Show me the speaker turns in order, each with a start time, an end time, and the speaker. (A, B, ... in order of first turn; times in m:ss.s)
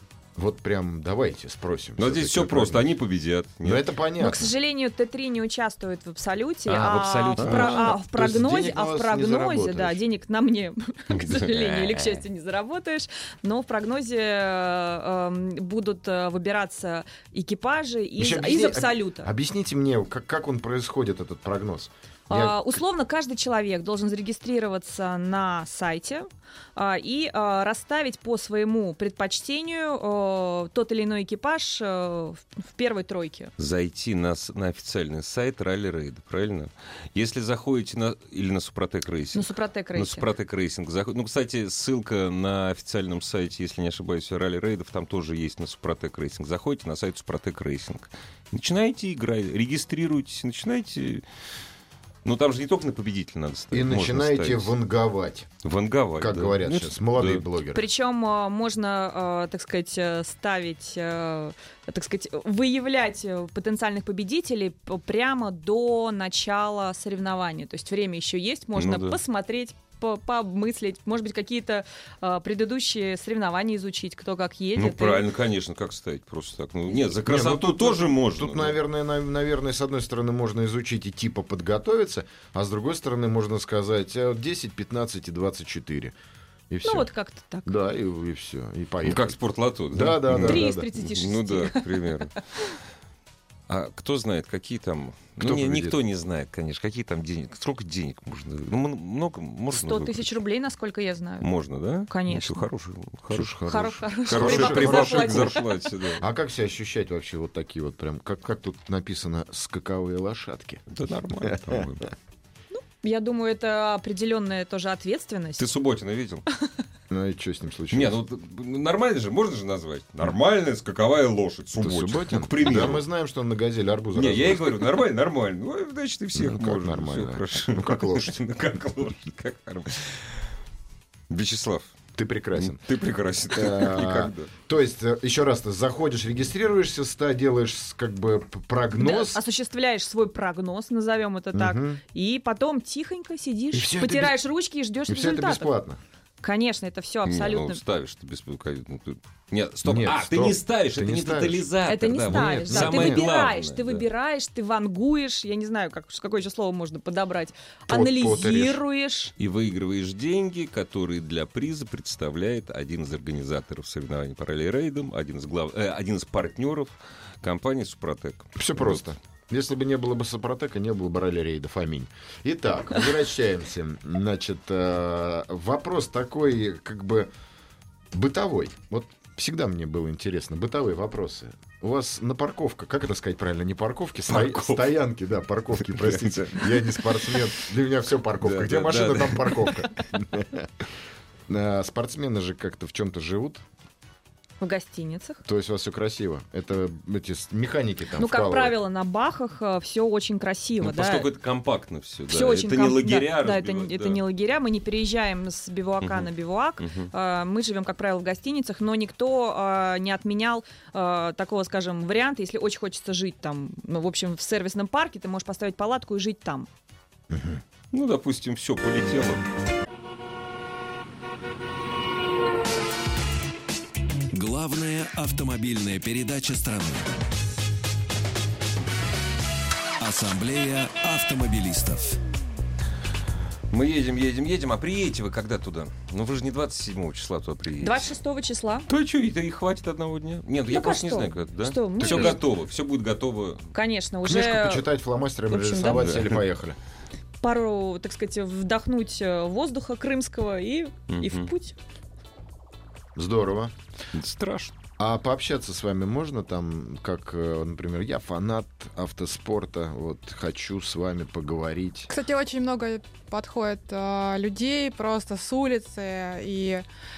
0:00.4-0:02.9 A
0:02.0-0:03.9 B
0:03.6-0:04.5 A
0:04.2-0:19.3 C
0:06.7-0:08.0 B
0:07.4-0:10.0 A
0:11.1-0:12.2 B
0:18.2-0:22.6 A
0:22.3-0:33.5 C
0:33.6-0:51.2 B
0:39.3-0:40.3 C
0:52.2-0:54.7 B
0:53.7-0:55.5 A
0:55.6-0:57.4 B
0:56.2-0:57.9 A
0:57.7-1:15.2 C
1:08.8-1:09.2 B
1:14.8-1:18.8 B
1:17.2-1:26.2 A
1:26.7-1:27.1 A
1:26.8-1:27.8 C
1:27.7-1:29.3 A
1:29.0-1:32.4 B
1:29.9-1:30.9 A
1:30.4-1:32.7 C
1:33.7-1:40.4 B
1:35.4-1:36.0 A
1:39.7-1:41.5 C
1:41.4-1:43.6 B
1:42.1-1:42.6 C
1:43.3-1:45.6 A
1:43.7-1:45.7 C
1:44.2-1:46.2 B
1:46.2-1:51.8 A
1:50.9-1:52.1 B
1:52.7-1:55.7 C
1:55.6-1:56.4 B
1:57.1-1:58.2 A
1:57.9-2:03.1 B
2:01.8-2:04.9 A
2:04.2-2:10.4 B
2:06.4-2:08.4 A
2:11.3-2:12.0 B
2:12.2-2:12.8 A
2:12.5-2:14.5 B
2:13.5-2:19.4 A
2:18.9-2:25.7 C
2:21.5-2:22.0 A
2:23.7-2:24.4 A
2:25.1-2:26.0 A
2:26.4-2:27.8 C
2:27.3-2:34.0 B
2:29.8-2:31.6 A
2:31.9-2:39.4 C
2:32.3-2:33.3 A
2:37.9-2:38.8 A
2:39.4-2:49.0 B
2:48.6-2:57.3 A
2:58.1-3:10.7 A
3:04.3-3:04.9 B
3:05.9-3:07.4 B
3:08.4-3:09.7 B
3:11.5-3:13.6 A
3:14.6-3:15.4 C
3:15.4-3:18.8 A
3:18.2-3:21.3 C
3:20.8-3:24.2 B
3:22.3-3:36.7 C
3:26.0-3:26.3 B
3:26.8-3:27.1 B
3:37.3-3:37.6 A
3:37.9-3:39.4 B
3:44.3-3:47.1 D
3:50.0-3:52.2 D
3:53.7-3:58.1 B
3:57.8-3:58.9 C
3:58.9-4:03.7 B
4:00.7-4:02.4 C
4:02.0-4:02.4 A
4:03.7-4:04.9 C
4:04.3-4:06.8 A
4:05.5-4:06.1 C
4:06.0-4:06.4 B
4:07.4-4:11.8 C
4:11.1-4:11.5 B
4:13.2-4:13.7 A
4:14.1-4:14.8 B
4:15.0-4:22.1 A
4:22.1-4:26.8 E